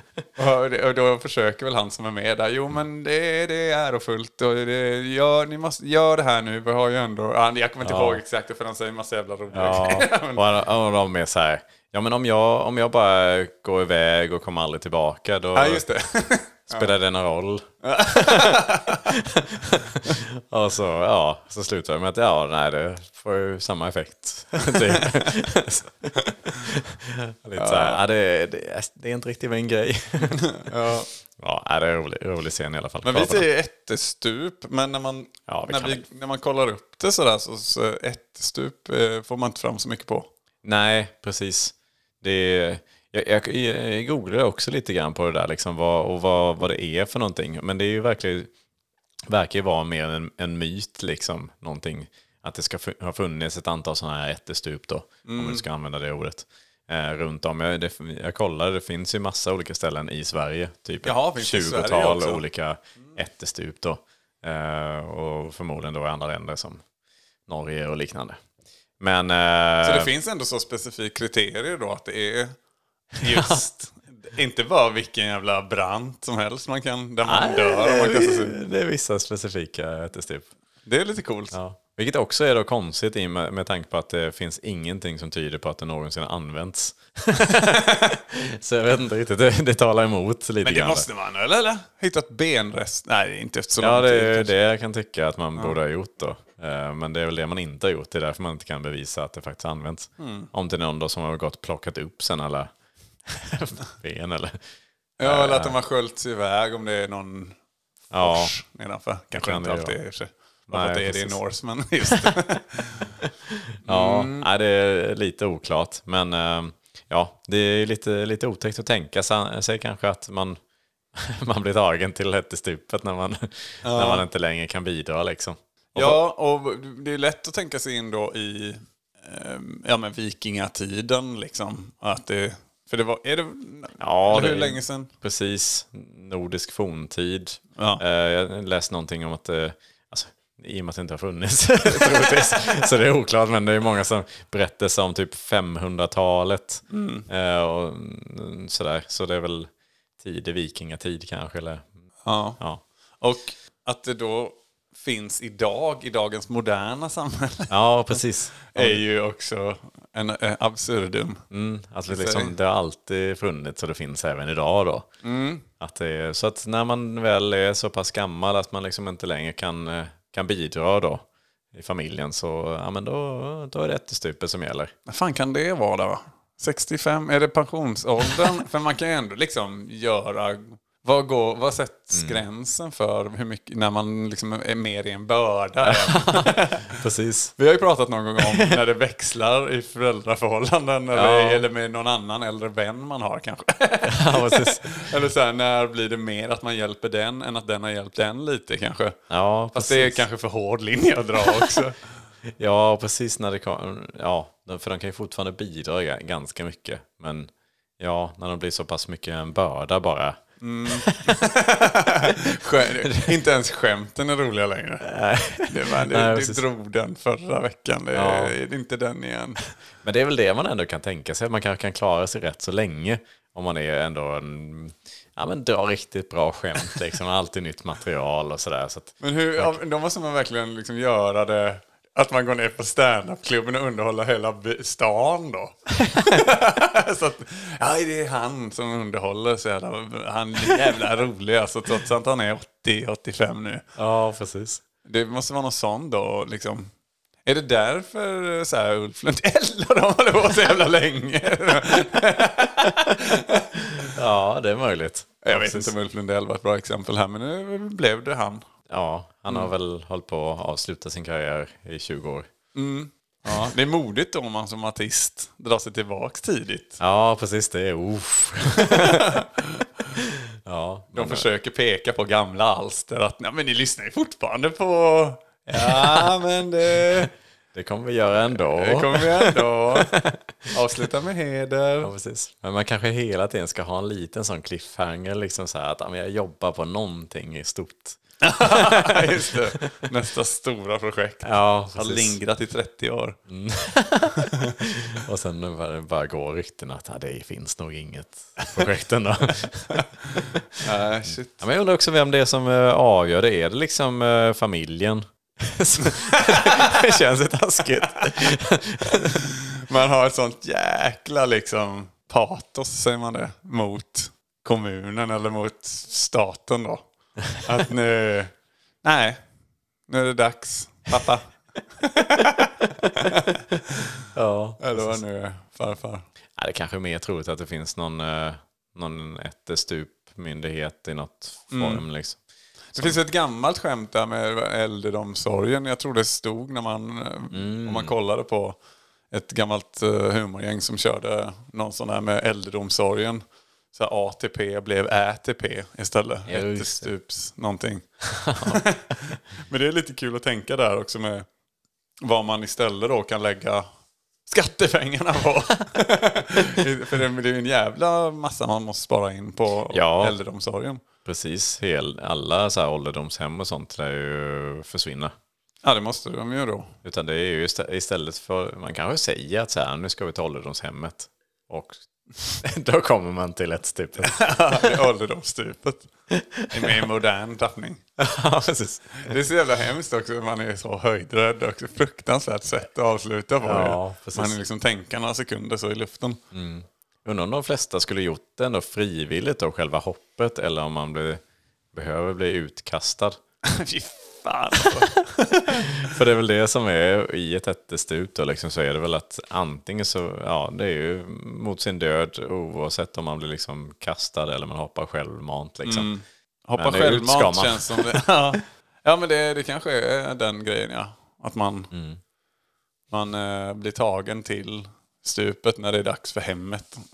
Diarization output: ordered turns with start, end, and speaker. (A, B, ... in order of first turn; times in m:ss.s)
0:00.4-0:10.4 A
0:07.8-0:08.2 B
0:09.5-0:15.8 B
0:15.5-0:16.9 A
0:16.7-0:30.7 B
0:17.8-0:19.1 A
0:27.6-0:28.0 A
0:30.3-0:31.1 A
0:31.4-0:33.4 B
0:33.0-0:40.3 A
0:35.5-0:36.0 B
0:40.6-0:48.5 B
0:49.3-1:06.8 B
0:55.2-0:55.6 A
1:01.0-1:02.4 A
1:07.5-1:08.4 B
1:09.0-1:10.1 B
1:09.8-1:12.6 A
1:13.2-1:18.6 A
1:13.2-1:13.6 B
1:17.2-1:20.5 B
1:20.8-1:21.6 A
1:21.5-1:31.1 B
1:30.6-1:34.5 A
1:33.8-1:42.7 B
1:40.2-1:40.5 A
1:43.3-1:44.6 B
1:45.2-1:47.6 A
1:45.2-1:45.8 B
1:48.1-1:48.5 B
1:48.2-1:53.1 A
1:49.4-1:49.9 B
1:50.7-1:51.4 B
1:52.1-1:52.3 B
1:53.2-2:00.6 B
1:53.8-1:54.5 A
2:01.1-2:06.2 B
2:03.8-2:04.2 A
2:05.9-2:15.1 A
2:14.0-2:31.9 B
2:17.8-2:18.0 A
2:21.9-2:22.8 A
2:26.9-2:27.3 A
2:32.2-2:32.6 A
2:33.2-2:37.7 A
2:37.7-2:39.0 B
2:38.7-2:41.4 A
2:41.5-2:45.1 B
2:42.1-2:42.5 A
2:45.2-2:45.6 A
2:45.8-2:54.9 B
2:55.1-3:07.0 A
3:02.1-3:02.4 B
3:05.8-3:07.5 B
3:07.6-3:19.2 A
3:08.4-3:08.8 B
3:11.1-3:11.6 B
3:14.1-3:14.9 B
3:19.3-3:20.2 B
3:19.7-3:22.0 A
3:22.6-3:31.4 B
3:30.6-3:35.1 A
3:33.0-3:33.3 B
3:35.0-3:36.6 B
3:35.6-3:39.6 A
3:38.1-3:38.6 B
3:40.0-3:49.8 B
3:49.2-4:03.8 A
4:04.0-4:04.8 B
4:05.0-4:06.9 A
4:07.4-4:14.1 A
4:14.1-4:15.9 B
4:15.4-4:18.6 A
4:18.9-4:22.5 B
4:22.7-4:27.0 A
4:27.0-4:29.4 B
4:28.8-4:29.8 A
4:30.2-4:31.4 B
4:31.1-4:37.3 A
4:35.7-4:36.3 B
4:37.7-4:40.7 B
4:38.5-4:40.1 A
4:40.7-4:42.1 A
4:42.0-4:50.0 B
4:48.4-4:53.4 A
4:51.4-4:52.4 B
4:53.5-5:00.8 B
5:00.8-5:01.6 A
5:01.6-5:09.4 B
5:06.5-5:06.9 A
5:09.1-5:17.0 A
5:17.6-5:18.5 A
5:19.0-5:19.4 A
5:20.1-5:24.2 A
5:22.4-5:23.8 B
5:24.3-5:25.2 B
5:24.8-5:26.2 A
5:26.6-5:32.4 B
5:31.7-5:32.0 A
5:32.9-5:33.2 B
5:33.0-5:38.8 A
5:37.5-5:38.1 B
5:39.3-5:48.1 A
5:46.5-5:47.1 B
5:48.2-5:48.8 B
5:48.6-5:51.5 A
5:52.2-5:53.8 A
5:54.4-6:01.0 A
5:59.9-6:00.4 B
6:01.2-6:05.3 B
6:05.8-6:06.9 A
6:07.0-6:14.9 B
6:14.2-6:16.1 A
6:16.3-6:17.0 B
6:16.7-6:18.0 A
6:18.2-6:19.3 B
6:19.2-6:26.4 A
6:23.6-6:24.5 B
6:26.5-6:31.4 B
6:31.9-6:33.4 B
6:33.6-6:35.9 A
6:35.7-6:46.1 B
6:45.8-6:51.9 A
6:46.8-6:48.2 B
6:51.9-6:52.2 B
6:53.1-6:57.0 A